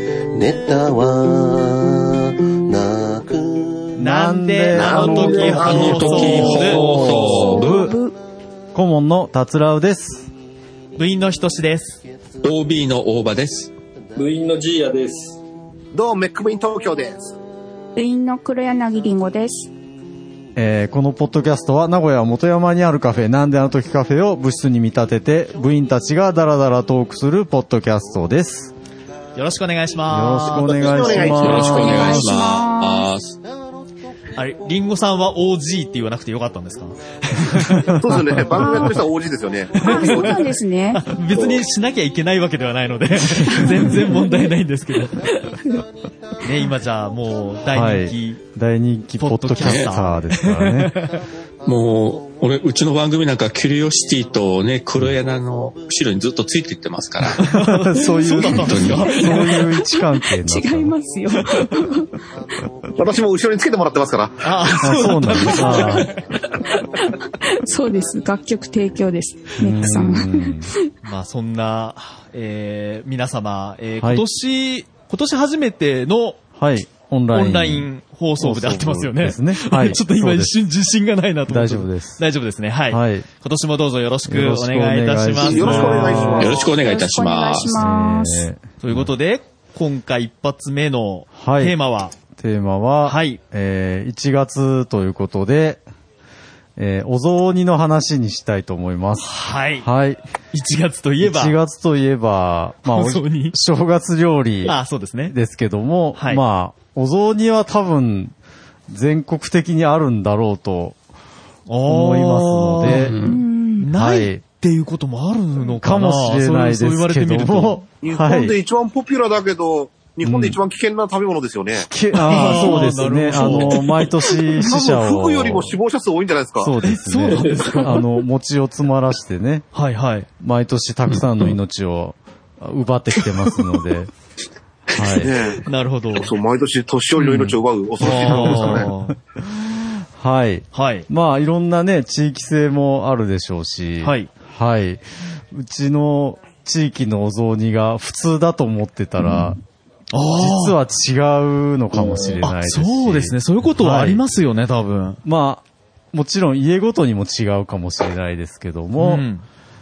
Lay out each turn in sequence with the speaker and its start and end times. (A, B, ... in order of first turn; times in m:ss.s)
0:00.3-0:04.0 A
0:04.0-0:07.9 B
0:04.0-0:07.0 C
0:04.8-0:06.7 D
0:05.5-0:07.8 E
0:06.5-0:07.1 F
0:07.0-0:08.2 G
0:08.7-0:10.3 B
0:10.9-0:12.0 C
0:12.4-0:13.7 E
0:14.2-0:15.4 F
0:15.9-0:17.3 D
0:17.9-0:19.7 G
0:20.6-0:28.7 B
0:29.3-0:31.3 C
0:30.1-0:32.2 B
0:30.5-0:32.0 D
0:31.3-0:33.1 G
0:31.3-0:33.4 E
0:34.4-0:38.7 C
0:37.6-0:38.4 B
0:38.0-0:40.3 D
0:38.6-0:39.0 G
0:39.8-0:41.0 G
0:39.8-0:45.2 C
0:41.3-0:41.6 F
0:43.4-0:44.5 G
0:45.2-0:45.8 G
0:46.4-0:48.4 C
0:47.6-0:50.9 B
0:49.2-0:51.2 C
0:49.6-0:50.1 E
0:51.6-0:57.5 E
0:57.4-0:59.6 C
0:57.5-1:00.9 B
0:58.5-0:59.1 E
0:59.1-1:02.1 G
1:02.9-1:04.4 D
1:04.4-1:06.1 C
1:04.8-1:06.1 B
1:05.5-1:06.0 G
1:06.6-1:10.9 G
1:09.6-1:10.7 B
1:11.0-1:16.4 C
1:14.0-1:14.2 B
1:16.5-1:20.5 B
1:17.3-1:26.4 C
1:21.5-1:22.2 B
1:22.9-1:23.3 B
1:24.2-1:26.6 B
1:25.4-1:26.7 D
1:26.4-1:27.9 E
1:26.5-1:28.5 G
1:27.8-1:29.1 B
1:28.8-1:32.1 C
1:31.3-1:31.8 B
1:32.3-1:35.8 B
1:33.0-1:33.4 C
1:36.8-1:40.2 B
1:39.2-1:39.9 C
1:40.5-1:41.6 C
1:41.2-1:44.8 B
1:42.9-1:43.6 C
1:44.6-1:45.3 C
1:45.3-1:48.3 B
1:46.1-1:46.4 C
1:48.9-1:51.0 B
1:51.7-1:53.1 C
1:51.8-1:53.1 B
1:52.8-1:53.4 E
1:53.2-1:53.9 G
1:53.8-1:57.8 C
1:53.9-1:54.4 B
1:55.8-1:58.5 B
1:58.0-2:01.9 D
2:00.2-2:00.6 B
2:01.8-2:05.8 B
2:02.2-2:04.3 C
2:04.6-2:06.7 D
2:06.6-2:09.7 B
2:06.8-2:07.9 C
2:07.3-2:08.0 F
2:09.7-2:10.3 C
2:10.4-2:14.1 B
2:11.1-2:11.5 E
2:14.9-2:15.3 B
2:15.2-2:18.9 D
2:15.6-2:16.3 C
2:17.2-2:19.2 C
2:18.1-2:19.1 B
2:20.2-2:29.6 B
2:20.7-2:21.1 C
2:24.0-2:24.3 C
2:29.2-2:29.5 C
2:30.1-2:30.8 C
2:30.4-2:34.2 B
2:32.4-2:35.2 C
2:35.2-2:39.3 B
2:39.0-2:39.4 C